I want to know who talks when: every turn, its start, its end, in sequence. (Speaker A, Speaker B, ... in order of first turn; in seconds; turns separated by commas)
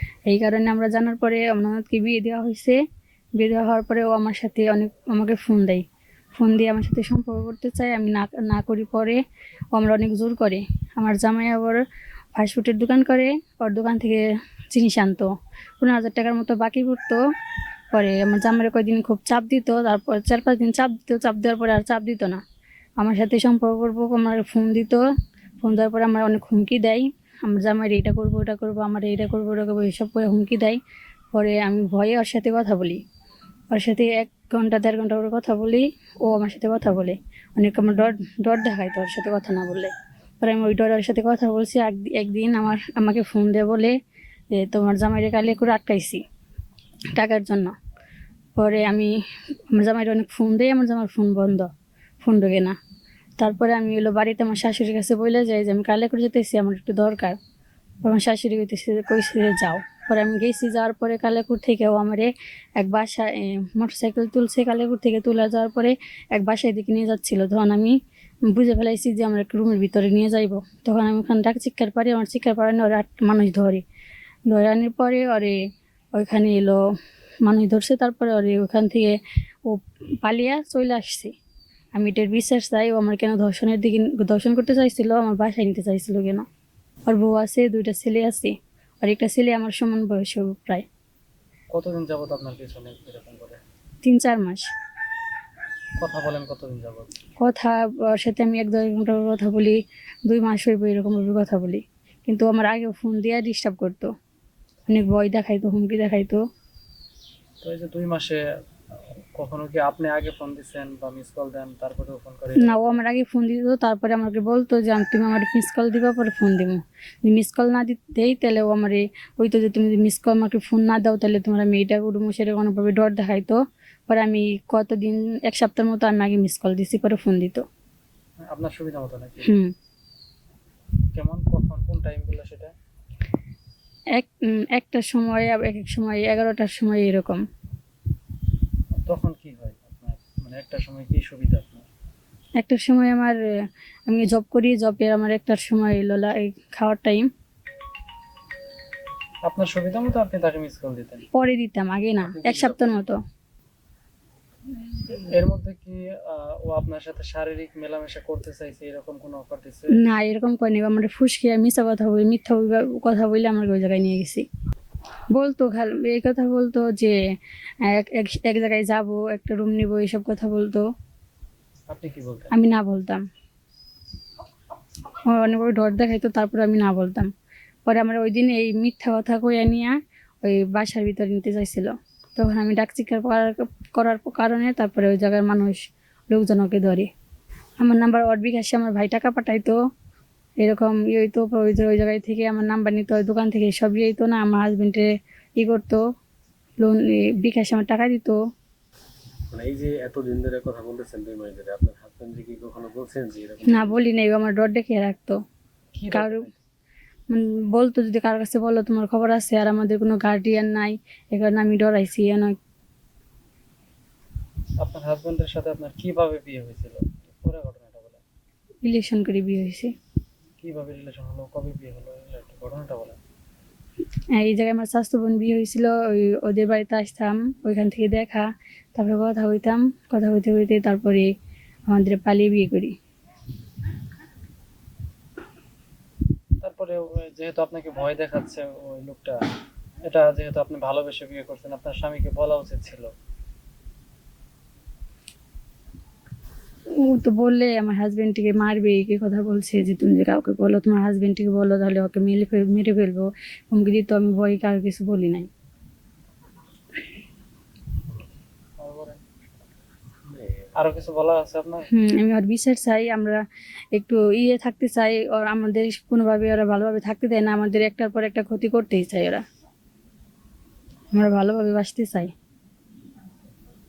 Speaker A: 0.3-2.8, Speaker A: 3.4-5.8, Speaker A: 6.3-9.2, Speaker A: 9.7-11.8, Speaker A: 12.3-17.2, Speaker A: 17.9-22.4, Speaker A: 23.0-25.0, Speaker A: 25.6-30.8, Speaker A: 31.3-33.0, Speaker A: 33.7-43.9, Speaker A: 44.5-46.2, Speaker A: 47.1-47.7, Speaker A: 48.5-49.1, Speaker A: 49.7-51.7, Speaker A: 52.2-52.8, Speaker A: 53.4-57.4, Speaker A: 58.0-68.0, Speaker A: 68.5-73.8, Speaker A: 74.5-75.5, Speaker A: 76.1-76.8, Speaker A: 77.4-81.3, Speaker A: 82.0-86.5, Speaker A: 87.1-90.8, Speaker B: 91.7-93.6, Speaker A: 94.0-94.7, Speaker B: 96.0-97.1, Speaker A: 97.4-104.1, Speaker A: 104.9-106.4, Speaker B: 107.6-108.4, Speaker B: 109.1-113.0, Speaker A: 112.6-127.7, Speaker B: 128.4-129.5, Speaker A: 129.4-129.7, Speaker B: 131.1-132.7, Speaker A: 134.1-137.4, Speaker B: 138.9-141.8, Speaker A: 142.6-143.3, Speaker A: 144.1-147.3, Speaker B: 149.4-151.2, Speaker A: 151.3-153.2, Speaker C: 152.2-152.9, Speaker B: 155.1-160.0, Speaker A: 159.9-164.4, Speaker A: 165.3-167.2, Speaker A: 167.8-170.8, Speaker B: 171.9-172.5, Speaker A: 172.5-173.2, Speaker A: 175.2-177.3, Speaker A: 177.8-187.1, Speaker A: 187.8-189.8, Speaker A: 190.6-196.0, Speaker A: 196.8-198.4, Speaker C: 199.5-204.0, Speaker A: 203.7-205.4, Speaker B: 205.9-206.6, Speaker A: 206.1-206.5, Speaker A: 207.3-212.6, Speaker B: 214.8-218.2, Speaker A: 218.8-219.9, Speaker B: 220.6-223.2, Speaker A: 224.3-231.3, Speaker A: 231.9-232.9, Speaker B: 236.6-239.4, Speaker B: 240.0-243.1, Speaker A: 246.9-255.5, Speaker B: 258.8-259.2, Speaker C: 260.2-260.7, Speaker B: 260.8-261.9, Speaker A: 261.9-263.4, Speaker A: 263.9-269.4, Speaker A: 271.1-272.3